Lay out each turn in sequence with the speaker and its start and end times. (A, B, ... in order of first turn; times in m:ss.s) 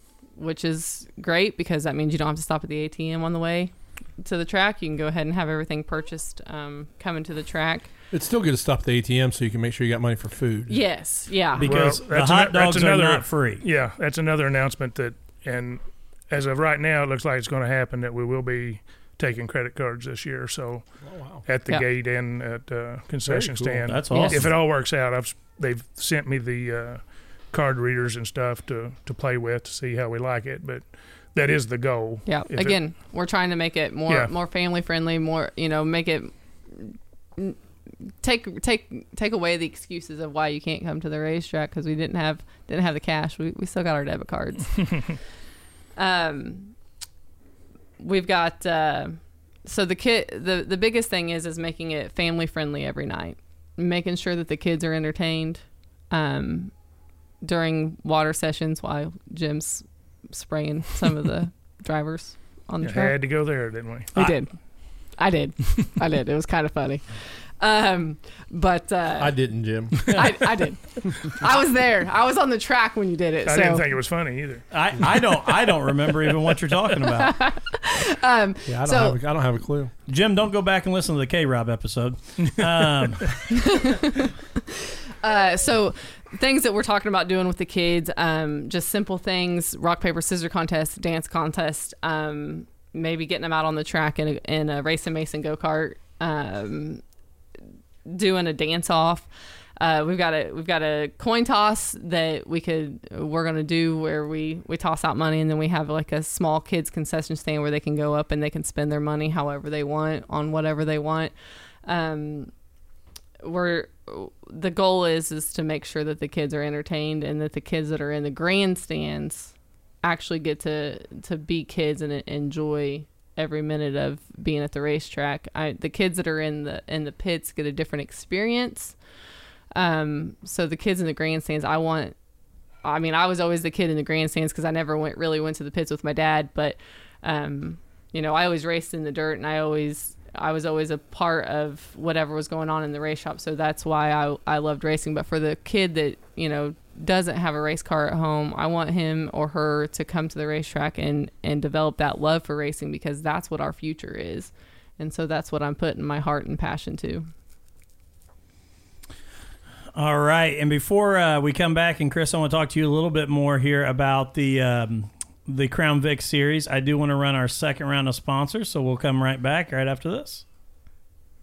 0:00.4-0:07.9 A
0:08.1-0:10.8 B
0:10.7-0:11.9 A
0:11.6-0:13.6 C
0:11.6-0:32.8 D
0:21.0-0:21.4 B
0:23.2-0:23.9 B
0:23.9-0:24.5 C
0:24.1-0:24.5 A
0:32.2-0:37.6 A
0:38.2-0:45.2 A
0:46.0-0:46.7 A
0:48.0-0:56.8 A
0:57.4-1:03.2 A
1:02.8-1:04.2 D
1:04.1-1:04.6 A
1:05.1-1:13.9 A
1:09.2-1:10.3 B
1:13.4-1:14.6 D
1:14.7-1:17.4 C
1:17.2-1:19.2 A
1:18.7-1:19.9 B
1:20.1-1:23.4 C
1:23.5-1:24.3 A
1:25.2-1:37.0 A
1:38.1-1:51.3 A
1:51.8-1:52.5 A
1:53.4-2:09.0 A
2:09.7-2:12.1 A
2:12.8-2:37.3 A
2:40.0-2:50.4 C